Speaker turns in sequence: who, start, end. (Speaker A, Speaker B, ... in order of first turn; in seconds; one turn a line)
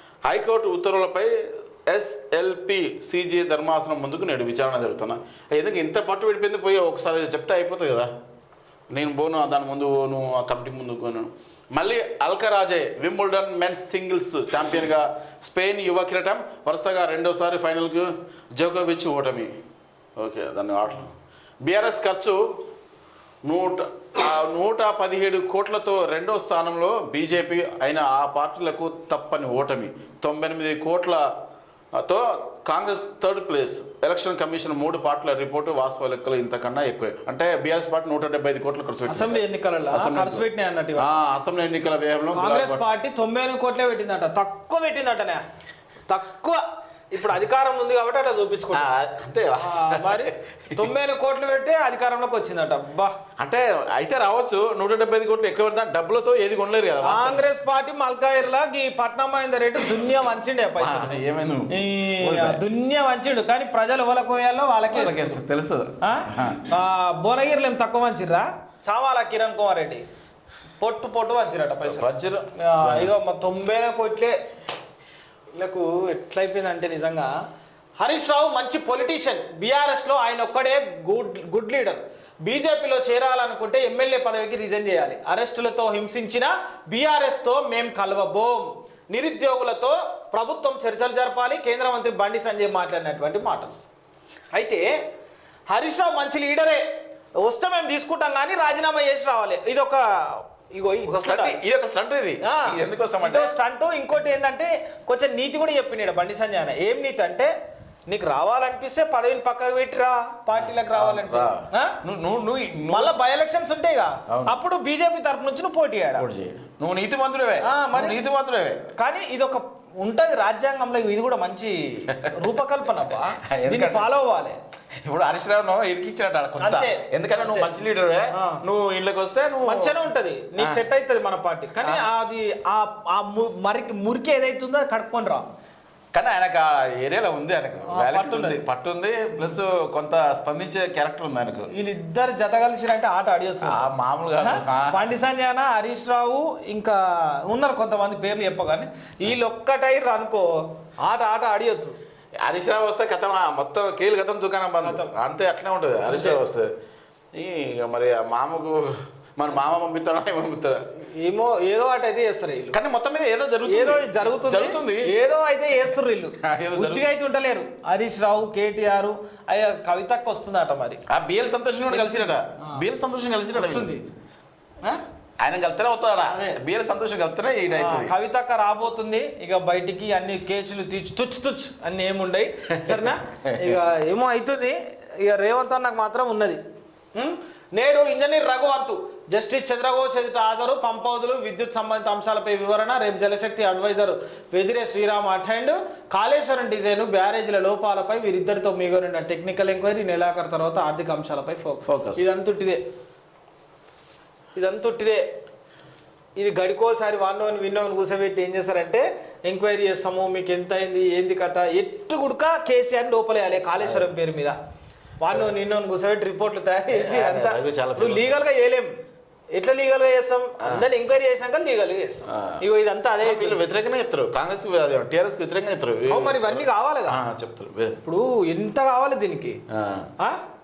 Speaker A: 0.2-1.3
Speaker A: 1.9-8.1
Speaker A: 8.9-19.5
Speaker A: 20.2-21.1
Speaker A: 21.6-22.4
Speaker A: 23.4-31.2
Speaker A: 32.0-39.4
Speaker B: 39.1-41.1
Speaker A: 39.9-40.4
Speaker A: 41.0-42.8
Speaker B: 42.3-45.4
Speaker B: 46.1-48.9
Speaker A: 48.7-50.9
Speaker B: 49.6-53.1
Speaker A: 53.4-57.4
Speaker B: 57.0-61.2
Speaker A: 60.8-62.6
Speaker B: 61.7-65.4
Speaker A: 64.9-66.6
Speaker B: 66.0-70.0
Speaker B: 70.8-72.1
Speaker A: 71.8-73.1
Speaker B: 72.6-74.3
Speaker B: 75.5-77.3
Speaker B: 78.0-93.7
Speaker B: 94.5-95.0
Speaker B: 95.7-96.8
Speaker B: 97.4-101.6
Speaker A: 101.0-103.5
Speaker B: 102.4-107.5
Speaker B: 108.1-112.0
Speaker A: 110.5-113.1
Speaker B: 112.9-116.2
Speaker A: 114.3-114.5
Speaker A: 116.2-118.8
Speaker B: 117.6-118.2
Speaker B: 119.0-124.6
Speaker A: 123.5-124.1
Speaker A: 125.0-129.9
Speaker B: 126.6-127.7
Speaker B: 128.3-128.6
Speaker B: 129.6-135.4
Speaker A: 130.6-130.8
Speaker A: 136.1-141.7
Speaker B: 137.9-138.6
Speaker B: 141.7-143.8
Speaker A: 143.6-145.1
Speaker B: 144.4-151.9
Speaker A: 152.4-156.7
Speaker B: 154.8-155.1
Speaker B: 156.1-156.4
Speaker A: 157.3-160.8
Speaker B: 161.1-162.8
Speaker A: 162.7-165.1
Speaker B: 163.7-171.0
Speaker A: 166.4-167.1
Speaker A: 171.1-173.9
Speaker B: 171.9-172.8
Speaker B: 173.5-174.0
Speaker A: 175.4-178.1
Speaker B: 176.3-176.6
Speaker B: 177.7-186.6
Speaker A: 182.7-183.6
Speaker B: 187.1-202.8
Speaker A: 201.8-202.2
Speaker B: 204.5-205.2
Speaker B: 206.4-214.6
Speaker A: 213.8-214.1
Speaker B: 215.2-218.9
Speaker A: 216.9-218.3
Speaker B: 219.5-223.6
Speaker A: 222.3-222.6
Speaker A: 223.2-228.0
Speaker B: 226.1-227.2
Speaker B: 228.0-229.6
Speaker A: 229.7-230.1